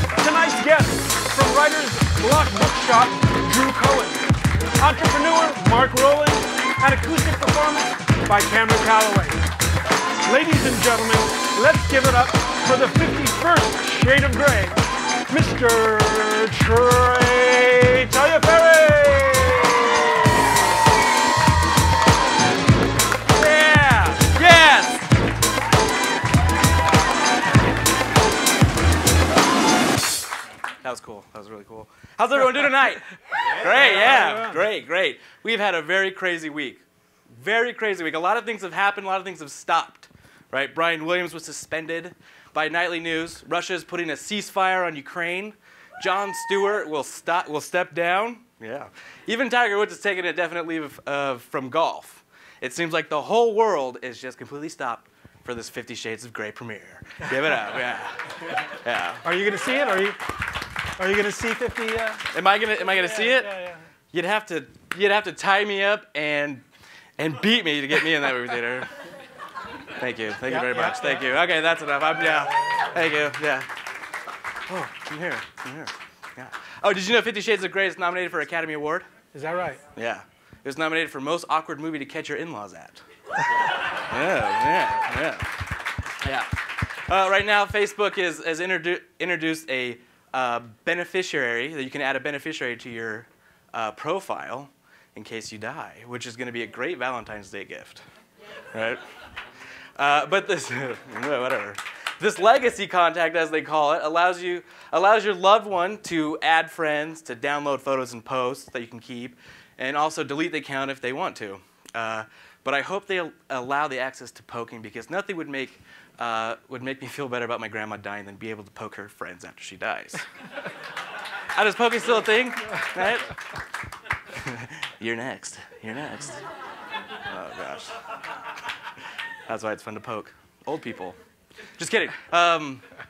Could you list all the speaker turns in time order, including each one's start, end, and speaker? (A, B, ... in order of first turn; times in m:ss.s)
0:00.2-0:04.2 A
0:04.8-0:09.4 A
0:10.2-0:20.3 A
0:23.3-0:25.1 B
0:30.8-0:59.2 B
0:59.2-1:00.3 A
1:01.0-1:02.2 A
1:02.3-1:03.5 B
1:03.0-1:03.8 A
1:04.1-1:06.6 B
1:07.2-1:08.9 B
1:10.0-1:13.7 B
1:10.4-1:11.1 A
1:14.7-1:19.1 B
1:19.3-1:19.8 A
1:20.0-1:23.0 B
1:23.9-1:25.6 B
1:26.2-1:38.0 B
1:38.7-1:39.0 B
1:40.0-2:00.2 B
2:01.5-2:03.4 B
2:04.3-2:06.4 B
2:07.3-2:07.9 B
2:09.5-2:11.2 B
2:11.8-2:12.8 B